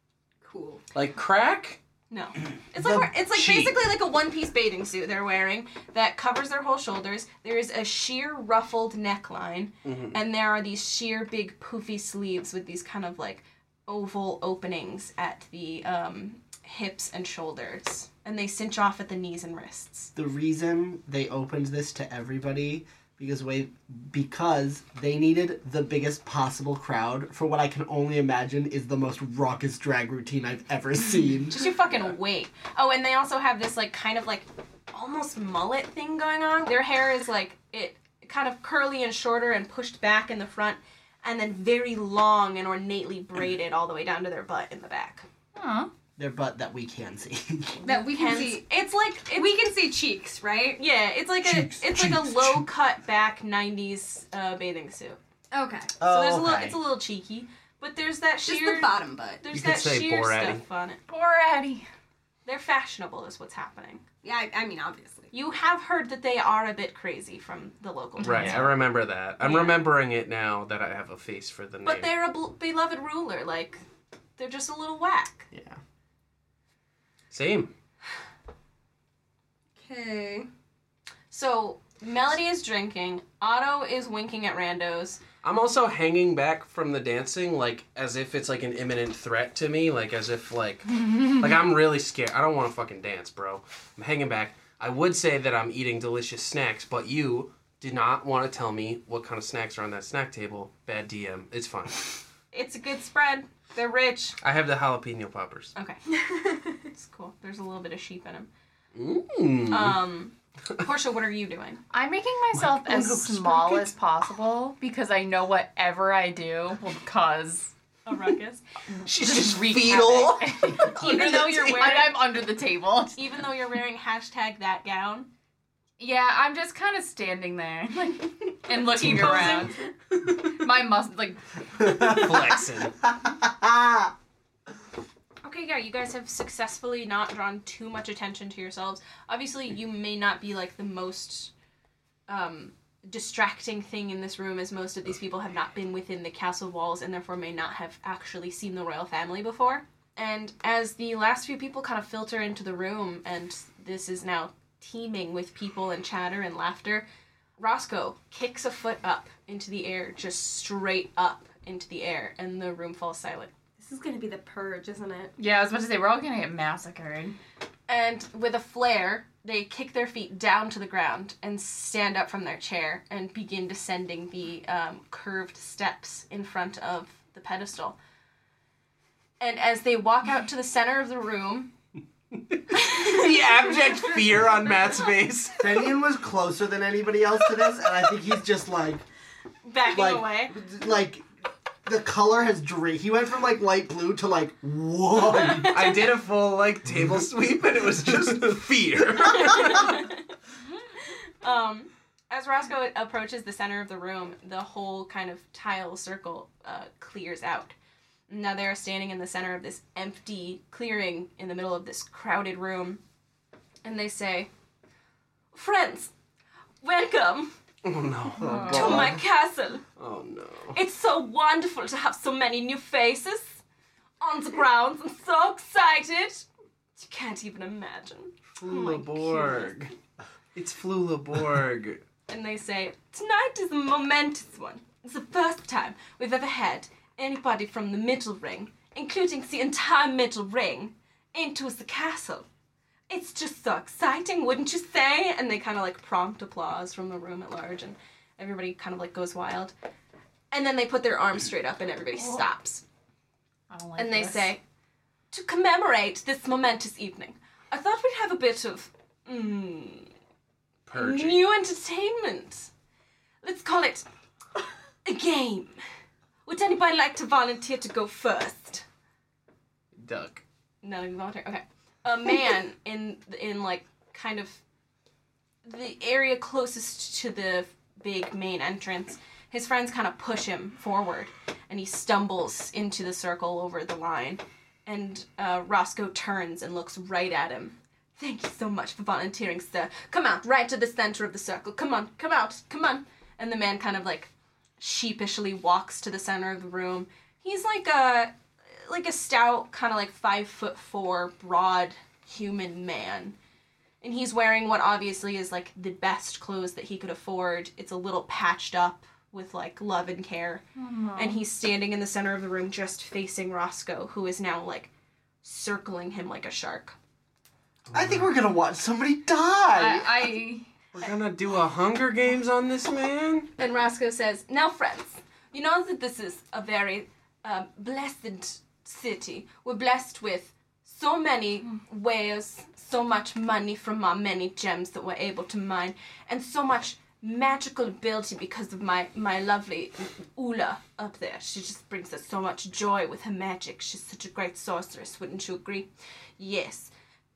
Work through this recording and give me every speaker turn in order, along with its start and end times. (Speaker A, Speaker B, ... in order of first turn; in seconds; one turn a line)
Speaker A: 0.4-0.8
Speaker B: 0.9-1.8
Speaker C: 2.1-20.1
Speaker B: 2.8-3.8
Speaker B: 9.8-10.2
Speaker D: 20.1-31.6
Speaker C: 31.5-45.2
Speaker E: 45.5-45.9
Speaker D: 46.2-47.8
Speaker C: 47.8-49.6
Speaker A: 47.8-48.6
Speaker A: 49.3-50.8
Speaker C: 50.8-55.2
Speaker D: 51.4-52.6
Speaker A: 55.5-55.9
Speaker D: 56.0-56.8
Speaker C: 56.0-61.0
Speaker A: 58.4-59.4
Speaker B: 59.5-60.6
Speaker E: 61.1-61.9
Speaker C: 62.5-64.0
Speaker A: 64.2-65.3
Speaker C: 65.3-68.7
Speaker E: 68.2-68.7
Speaker B: 68.2-72.1
Speaker C: 69.4-69.8
Speaker C: 71.8-73.8
Speaker C: 74.4-75.5
Speaker B: 77.3-77.7
Speaker A: 79.8-80.5
Speaker C: 81.3-85.2
Speaker B: 85.4-102.2
Speaker C: 102.5-104.4
Speaker B: 104.4-105.7
Speaker C: 105.7-106.0
Speaker A: 106.1-106.8
Speaker C: 106.9-108.5
Speaker B: 108.9-110.0
Speaker C: 109.7-111.8
Speaker E: 111.9-117.7
Speaker B: 112.5-113.9
Speaker C: 118.0-118.6
Speaker E: 119.0-123.2
Speaker B: 119.0-122.0
Speaker C: 120.8-122.2
Speaker C: 123.2-125.3
Speaker E: 126.0-132.2
Speaker C: 128.9-129.8
Speaker D: 131.8-134.1
Speaker B: 132.0-132.9
Speaker C: 135.4-141.5
Speaker C: 142.3-157.1
Speaker C: 157.6-163.5
Speaker A: 163.8-165.3
Speaker E: 165.4-167.4
Speaker C: 167.9-178.0
Speaker C: 179.4-181.7
Speaker B: 182.5-185.7
Speaker C: 182.7-183.3
Speaker D: 185.6-189.0
Speaker C: 189.6-190.6
Speaker D: 189.9-191.2
Speaker D: 191.8-195.9
Speaker B: 195.6-200.1
Speaker C: 199.2-200.2
Speaker C: 200.9-207.7
Speaker C: 208.3-213.0
Speaker C: 213.8-214.5
Speaker C: 215.5-216.1
Speaker C: 216.8-217.5
Speaker B: 217.8-219.2
Speaker E: 218.4-218.8
Speaker D: 218.4-219.2
Speaker C: 218.7-219.8
Speaker B: 220.0-220.8
Speaker C: 220.7-223.6
Speaker C: 224.2-226.4
Speaker C: 227.0-229.7
Speaker B: 228.6-229.9
Speaker B: 230.5-232.0
Speaker C: 232.3-242.4
Speaker C: 243.1-249.7
Speaker C: 250.5-252.8
Speaker E: 252.2-252.4
Speaker E: 253.7-254.6
Speaker C: 253.9-254.6
Speaker C: 255.3-260.1
Speaker B: 260.9-261.4
Speaker C: 260.9-262.7
Speaker C: 263.4-264.1
Speaker C: 265.0-265.8
Speaker C: 266.4-268.8
Speaker B: 269.9-270.4
Speaker C: 270.8-274.6
Speaker C: 275.6-303.4
Speaker C: 304.0-310.6
Speaker E: 310.8-311.4
Speaker C: 311.1-314.9
Speaker C: 315.4-316.9
Speaker B: 317.9-318.3
Speaker D: 317.9-320.4
Speaker E: 319.7-320.7
Speaker B: 320.9-323.5
Speaker C: 323.6-346.9